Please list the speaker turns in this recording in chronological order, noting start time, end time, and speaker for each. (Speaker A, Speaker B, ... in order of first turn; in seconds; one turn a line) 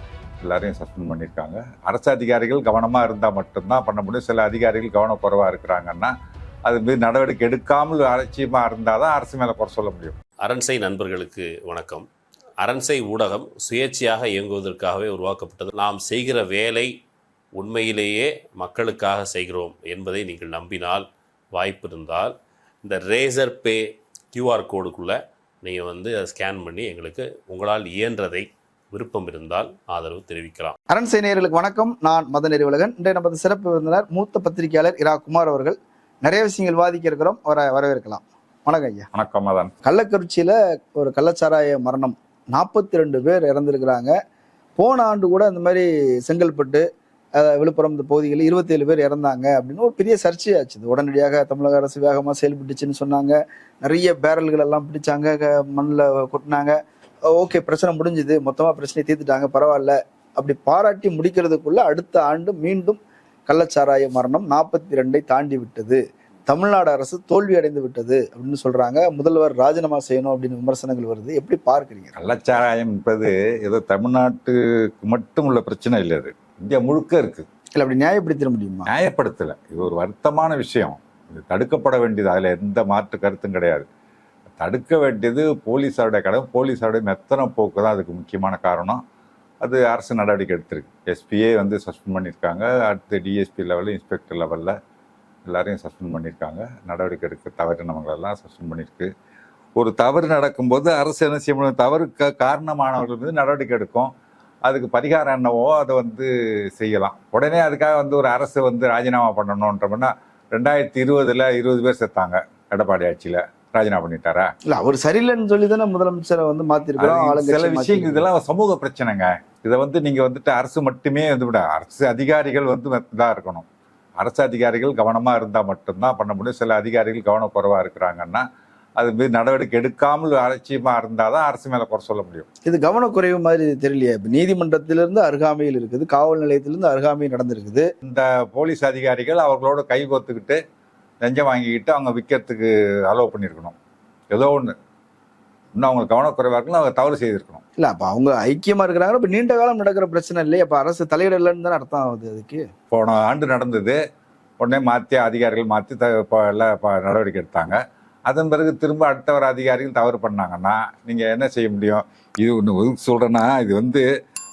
Speaker A: 0.4-6.1
Speaker A: 6.7-10.2
Speaker B: 10.4-12.1
Speaker B: 12.6-16.9
Speaker B: 17.6-30.8
Speaker C: 30.9-39.1
Speaker A: 39.1-39.7
Speaker C: 39.9-44.1
Speaker C: 44.8-46.8
Speaker C: 47.4-56.8
Speaker C: 57.3-72.1
Speaker A: 72.2-77.5
Speaker C: 77.8-78.9
Speaker A: 78.9-83.9
Speaker A: 84.6-89.0
Speaker A: 89.6-94.7
Speaker A: 95.5-99.1
Speaker A: 99.8-104.1
Speaker A: 104.7-114.5
Speaker C: 114.7-118.3
Speaker A: 117.0-123.7
Speaker A: 124.2-128.4
Speaker A: 129.0-132.5
Speaker C: 132.7-137.9
Speaker A: 138.0-140.6
Speaker A: 141.2-143.8
Speaker A: 144.3-144.7
Speaker A: 145.8-147.6
Speaker C: 147.8-152.6
Speaker A: 152.9-154.0
Speaker A: 154.6-164.1